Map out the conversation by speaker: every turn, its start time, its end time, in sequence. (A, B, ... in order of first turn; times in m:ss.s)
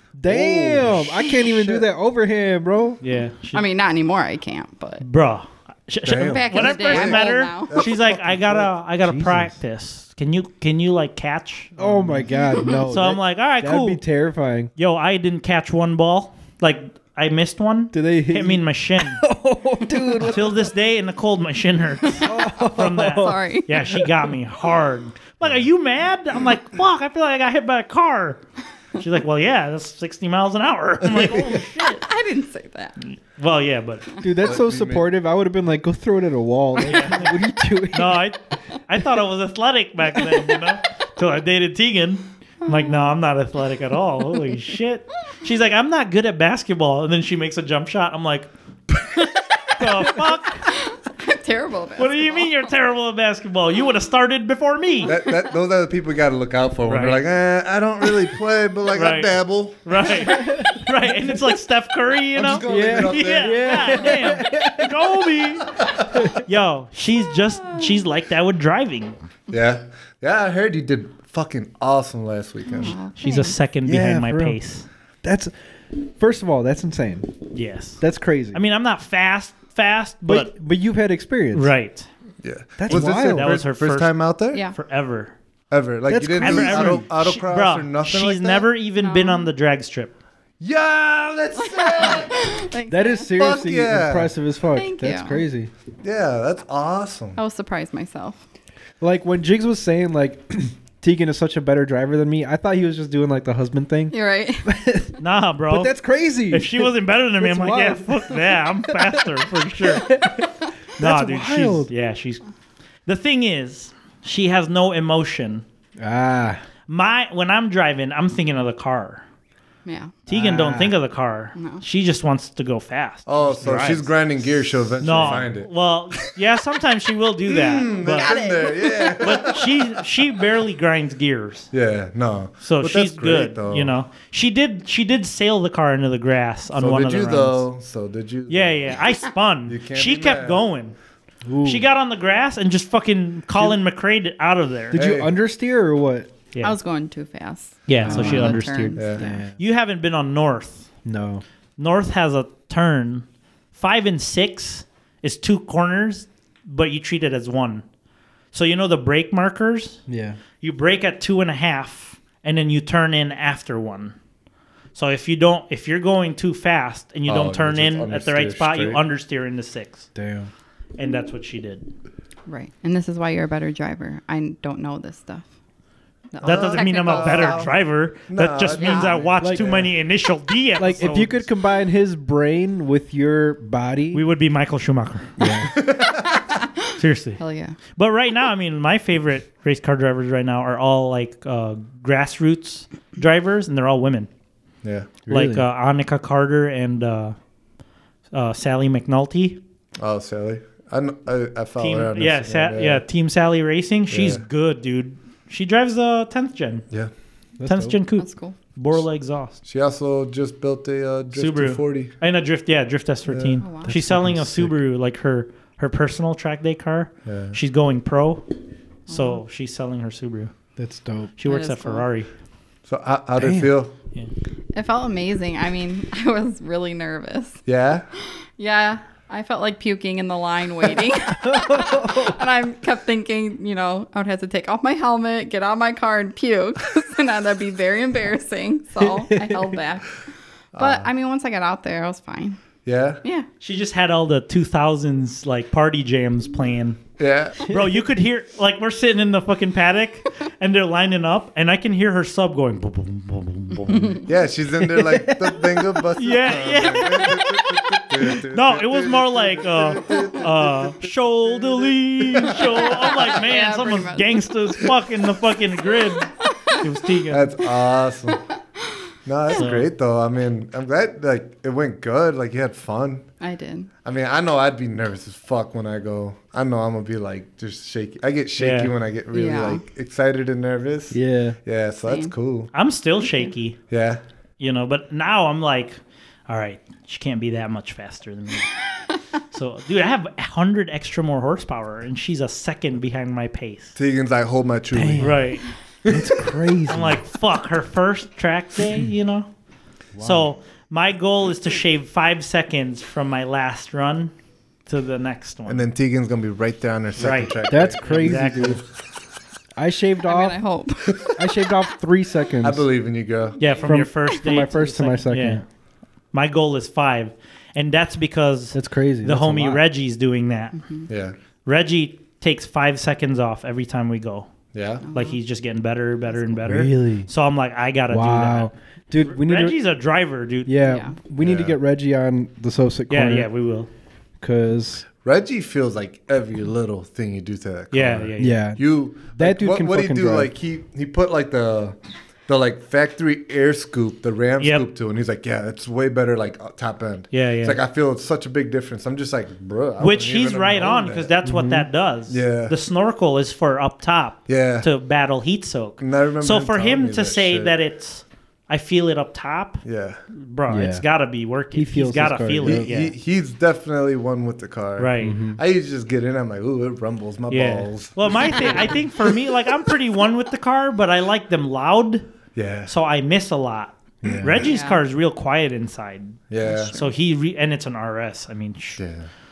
0:00.2-0:03.0 A
0:00.2-0:01.8 B
0:03.0-0:03.6 C
0:03.5-0:05.0 D
0:05.0-0:14.0 C
0:06.0-0:08.7 B
0:06.2-0:07.8 D
0:09.0-0:09.6 A
0:11.8-0:14.7 A
0:12.5-0:12.8 D
0:14.8-0:19.2 C
0:17.9-0:20.7 A
0:20.2-0:28.4 C
0:22.2-0:24.0 D
0:22.2-0:23.4 A
0:28.9-0:32.0 C
0:31.8-0:33.0 D
0:33.0-0:34.1 C
0:34.2-0:38.2 A
0:34.4-0:35.0 B
0:36.8-0:37.4 C
0:37.9-0:48.5 C
0:42.6-0:43.1 D
0:49.7-0:50.7 C
0:50.7-0:52.5 D
0:52.0-0:55.1 C
0:55.0-1:00.2 B
0:56.9-0:57.2 C
0:58.9-1:05.8 C
1:00.2-1:00.8 A
1:02.3-1:04.1 B
1:02.6-1:05.1 A
1:05.7-1:06.3 B
1:06.3-1:09.2 C
1:09.5-1:13.0 B
1:12.6-1:13.6 D
1:13.2-1:14.8 C
1:13.8-1:14.6 A
1:15.2-1:17.5 A
1:17.5-1:18.0 C
1:18.0-1:18.6 A
1:18.5-1:20.5 C
1:20.2-1:21.7 A
1:21.5-1:22.1 C
1:22.4-1:24.6 B
1:22.8-1:23.6 A
1:22.9-1:25.3 C
1:25.7-1:28.7 B
1:26.1-1:27.0 A
1:26.4-1:30.1 C
1:29.0-1:29.5 D
1:30.6-1:32.6 B
1:31.6-1:33.3 D
1:32.9-1:35.7 A
1:33.3-1:34.3 B
1:34.7-1:35.4 D
1:36.0-1:37.4 B
1:37.4-1:38.4 D
1:39.0-1:45.2 A
1:44.1-1:44.7 D
1:45.2-1:50.2 C
1:45.7-1:49.3 A
1:49.8-1:51.9 A
1:51.0-1:52.4 C
1:53.0-1:55.6 C
1:56.0-1:56.6 A
1:56.9-1:59.2 C
1:59.8-2:00.1 D
2:00.3-2:04.1 C
2:00.3-2:01.0 A
2:01.6-2:01.8 D
2:03.3-2:05.7 B
2:05.0-2:08.4 C
2:07.5-2:09.9 B
2:08.0-2:09.1 D
2:09.2-2:11.7 C
2:11.7-2:13.9 B
2:12.6-2:17.6 C
2:16.8-2:19.0 B
2:18.5-2:20.9 C
2:19.7-2:20.6 B
2:21.4-2:21.9 A
2:21.6-2:25.0 C
2:24.9-2:26.3 A
2:24.9-2:25.3 B
2:26.6-2:29.4 D
2:27.9-2:30.9 C
2:28.0-2:28.6 A
2:29.0-2:29.2 B
2:29.2-2:29.5 A
2:31.0-2:31.4 A
2:31.8-2:37.8 C
2:38.5-2:40.0 C
2:40.1-2:40.4 A
2:40.6-2:44.1 C
2:44.9-2:50.1 C
2:47.3-2:49.0 B
2:50.2-2:50.5 A
2:51.0-2:51.9 C
2:52.5-2:55.5 D
2:56.3-2:57.7 D
2:56.4-2:57.7 B
2:56.4-3:01.4 C
2:58.3-2:59.9 B
2:58.8-2:59.2 D
2:59.4-2:59.7 A
3:00.8-3:04.2 A
3:04.1-3:05.5 C
3:05.4-3:05.7 A
3:05.7-3:06.3 B
3:06.9-3:07.4 C
3:07.4-3:07.8 D
3:07.9-3:14.3 C
3:14.8-3:15.1 B
3:15.3-3:15.6 A
3:15.3-3:17.4 C
3:18.3-3:19.6 C
3:20.0-3:23.0 B
3:21.8-3:26.8 C
3:24.1-3:24.4 B
3:27.6-3:28.0 A
3:27.6-3:29.6 C
3:28.2-3:28.6 D
3:29.6-3:32.1 B
3:31.3-3:38.4 C
3:33.3-3:33.7 B
3:33.6-3:33.9 D
3:33.9-3:34.7 A
3:37.3-3:37.6 B
3:39.1-3:39.4 D
3:39.1-3:40.5 C
3:40.8-3:41.3 A
3:41.4-3:42.3 C
3:41.5-3:42.0 D
3:42.9-3:43.9 B
3:43.4-3:43.7 A
3:44.7-3:47.6 D
3:47.6-3:48.0 B
3:48.2-4:00.2 D
3:51.3-3:52.4 A
3:59.0-3:59.7 A
4:00.7-4:01.1 B
4:00.7-4:02.6 D
4:02.8-4:03.2 B
4:03.6-4:07.0 C
4:07.2-4:07.7 B
4:07.6-4:14.2 C
4:14.2-4:22.8 B
4:14.9-4:16.0 A
4:16.2-4:27.6 C
4:22.6-4:24.5 D
4:26.4-4:26.8 D
4:27.3-4:28.4 B
4:28.8-4:29.7 D
4:29.2-4:33.3 B
4:29.5-4:29.9 C
4:33.4-4:33.9 D
4:34.0-4:42.7 B
4:38.6-4:38.9 C
4:39.3-4:39.8 D
4:41.1-4:41.6 A
4:42.1-4:42.3 D
4:42.7-4:43.8 C
4:43.9-4:44.2 B
4:44.6-4:48.8 C
4:49.5-4:53.9 C
4:54.0-4:55.5 B
4:54.9-4:55.5 A
4:55.2-4:55.6 C
4:56.0-4:57.2 A
4:56.9-4:59.5 C
5:00.2-5:04.3 C
5:00.2-5:00.4 A
5:04.8-5:05.8 C
5:05.6-5:08.6 B
5:07.2-5:08.8 C
5:07.7-5:08.8 A
5:09.8-5:10.6 A
5:10.2-5:11.4 D
5:11.3-5:12.8 A
5:12.6-5:13.7 B
5:13.6-5:15.6 C
5:13.8-5:15.6 A
5:16.3-5:20.8 C
5:18.7-5:19.8 A
5:21.1-5:21.3 B
5:21.6-5:24.5 C
5:24.7-5:25.0 B
5:25.0-5:25.4 D
5:25.1-5:30.7 C
5:26.6-5:27.3 A
5:28.1-5:29.8 A
5:30.6-5:33.5 A
5:30.8-5:31.2 D
5:31.4-5:31.7 B
5:33.1-5:33.9 C
5:34.4-5:35.0 A
5:35.2-5:42.0 B
5:37.9-5:38.6 C
5:38.4-5:40.5 A
5:42.5-5:51.3 B
5:44.6-5:44.8 C
5:47.3-5:47.8 C
5:50.0-6:03.1 C
5:51.4-5:51.9 A
5:52.3-5:52.7 B
5:54.5-5:54.9 B
5:56.0-5:57.7 B
5:59.8-6:00.2 B
6:00.7-6:01.0 A
6:01.7-6:02.9 A
6:02.6-6:09.0 B
6:05.0-6:05.4 C
6:05.2-6:05.6 A
6:07.5-6:12.2 C
6:12.6-6:12.9 B
6:12.9-6:19.0 C
6:14.2-6:14.7 A
6:14.6-6:15.0 D
6:16.5-6:17.0 B
6:16.6-6:17.1 D
6:19.0-6:19.3 B